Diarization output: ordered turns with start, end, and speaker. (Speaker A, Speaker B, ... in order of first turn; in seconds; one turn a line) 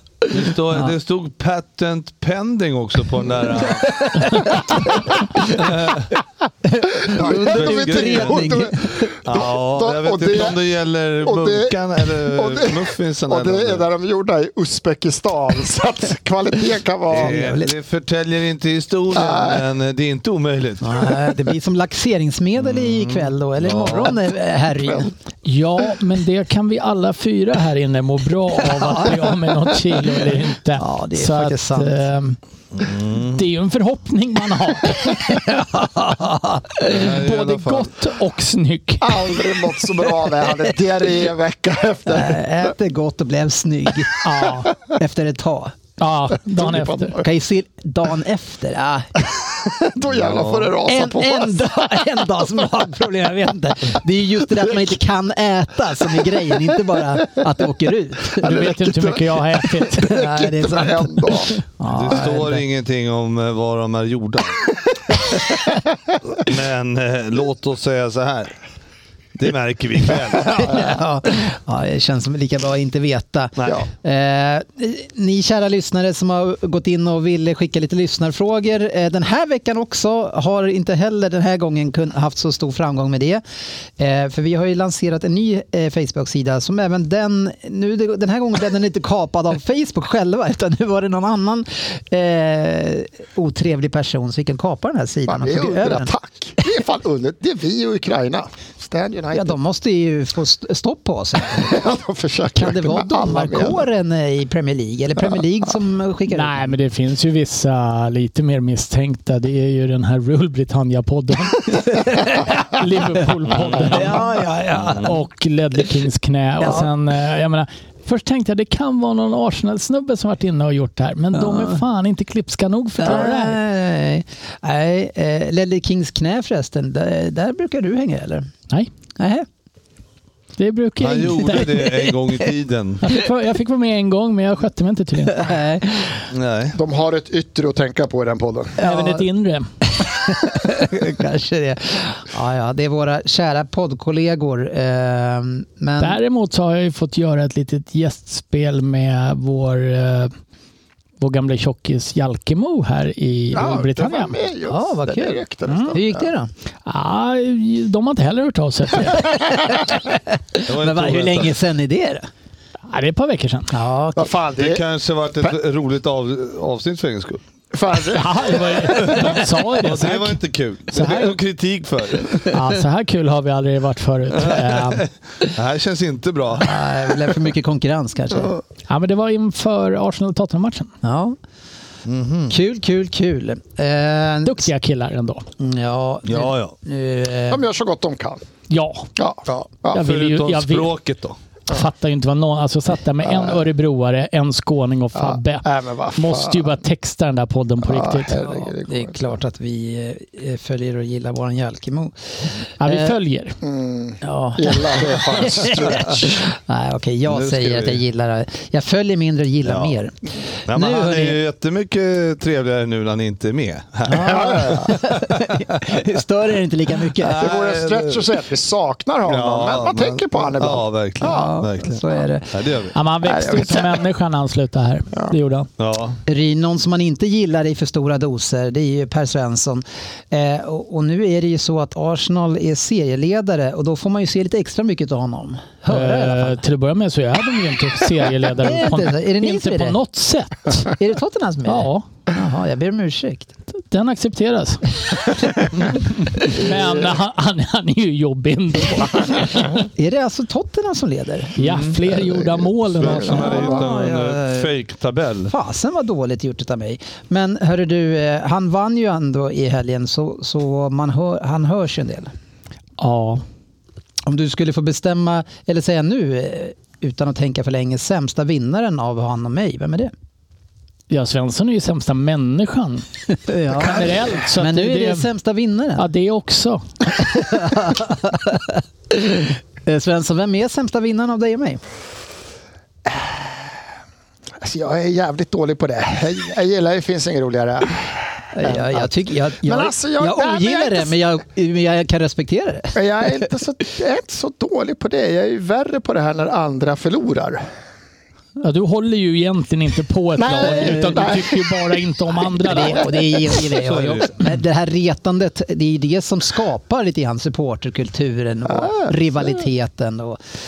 Speaker A: 0.3-6.1
Speaker B: 3.9-4.8
Speaker B: 5.3-5.9
Speaker B: 6.6-9.1
Speaker C: 7.1-10.6
Speaker A: 7.2-8.6
Speaker A: 9.2-13.8
Speaker C: 11.2-17.4
Speaker A: 17.1-21.1
Speaker B: 17.1-17.7
Speaker C: 19.1-19.6
Speaker B: 20.8-25.1
Speaker A: 22.6-24.3
Speaker D: 25.4-32.4
Speaker B: 28.6-29.2
Speaker B: 30.8-31.9
Speaker A: 32.7-33.4
Speaker D: 33.2-39.3
Speaker B: 35.3-36.5
Speaker A: 36.8-37.9
Speaker C: 39.0-42.4
Speaker B: 42.1-45.8
Speaker D: 44.2-44.7
Speaker D: 46.0-47.1
Speaker C: 46.5-47.3
Speaker B: 47.2-49.2
Speaker C: 49.6-51.9
Speaker A: 50.1-50.8
Speaker B: 50.8-59.0
Speaker D: 58.4-60.1
Speaker C: 58.5-59.2
Speaker C: 59.8-61.6
Speaker B: 59.9-62.6
Speaker A: 61.9-64.7
Speaker A: 66.3-68.6
Speaker A: 69.3-70.9
Speaker B: 70.4-83.4
Speaker A: 73.6-73.8
Speaker B: 84.0-96.1
Speaker C: 95.3-99.6
Speaker B: 99.3-101.8
Speaker C: 101.5-103.8
Speaker B: 102.5-106.7
Speaker D: 106.3-114.4
Speaker B: 111.9-112.5
Speaker A: 113.5-114.0
Speaker B: 113.7-115.2
Speaker A: 114.8-115.1
Speaker D: 115.0-123.6
Speaker B: 121.3-121.8
Speaker B: 123.0-128.5
Speaker B: 129.2-129.4
Speaker D: 130.6-132.1
Speaker A: 131.0-133.1
Speaker D: 133.0-135.5
Speaker B: 135.3-136.3
Speaker A: 136.3-136.8
Speaker C: 136.7-138.7
Speaker B: 138.8-139.2
Speaker D: 138.8-139.7
Speaker B: 140.0-146.2
Speaker D: 146.0-150.3
Speaker D: 151.2-154.3
Speaker C: 153.5-156.3
Speaker B: 154.7-156.5
Speaker D: 155.7-155.9
Speaker D: 156.8-159.4
Speaker B: 159.9-162.3
Speaker A: 160.7-161.5
Speaker D: 162.9-163.7
Speaker B: 163.7-164.3
Speaker C: 164.2-164.8
Speaker A: 164.6-167.4
Speaker C: 167.7-169.4
Speaker D: 168.1-170.4
Speaker A: 169.0-172.7
Speaker D: 170.9-171.3
Speaker D: 172.5-175.1
Speaker A: 174.3-177.3
Speaker B: 176.6-178.5
Speaker D: 178.9-180.9
Speaker B: 181.0-181.4
Speaker A: 182.1-182.5
Speaker B: 182.5-184.7
Speaker D: 184.4-185.4
Speaker B: 185.6-187.6
Speaker A: 186.2-186.7
Speaker C: 187.5-188.4
Speaker D: 188.7-189.1
Speaker C: 189.2-190.0
Speaker D: 189.9-190.9
Speaker A: 189.9-191.4
Speaker D: 191.7-198.4
Speaker C: 193.3-193.5
Speaker C: 195.1-196.7
Speaker C: 197.8-199.3
Speaker B: 198.8-203.2
Speaker D: 202.8-203.6
Speaker C: 203.6-206.4
Speaker B: 204.2-211.4
Speaker A: 207.3-208.0
Speaker A: 209.6-209.9
Speaker A: 210.7-216.0
Speaker B: 214.1-217.5
Speaker C: 214.2-215.0
Speaker A: 217.2-218.2
Speaker C: 217.3-221.5
Speaker A: 219.2-222.9
Speaker B: 221.2-222.5
Speaker D: 222.9-225.7
Speaker C: 223.2-224.0
Speaker A: 225.8-226.2
Speaker B: 226.2-236.6
Speaker D: 235.9-240.9
Speaker B: 238.6-240.0
Speaker B: 240.9-243.5
Speaker D: 241.6-242.0
Speaker D: 243.9-244.8
Speaker D: 246.2-249.8
Speaker C: 246.6-247.0
Speaker B: 249.9-251.6
Speaker D: 251.6-253.7
Speaker A: 251.6-252.1
Speaker C: 252.1-253.8
Speaker A: 252.9-255.5
Speaker B: 253.1-254.7
Speaker B: 255.5-262.3
Speaker D: 263.0-263.4
Speaker B: 264.2-270.1
Speaker D: 271.1-273.0
Speaker B: 273.3-276.1
Speaker D: 273.7-275.3
Speaker D: 275.9-276.8
Speaker B: 277.1-281.8
Speaker C: 284.6-291.1
Speaker B: 288.5-293.0
Speaker C: 292.9-297.6
Speaker D: 298.6-303.2
Speaker C: 300.4-301.8
Speaker B: 300.6-301.2
Speaker B: 302.6-310.4
Speaker A: 303.7-304.3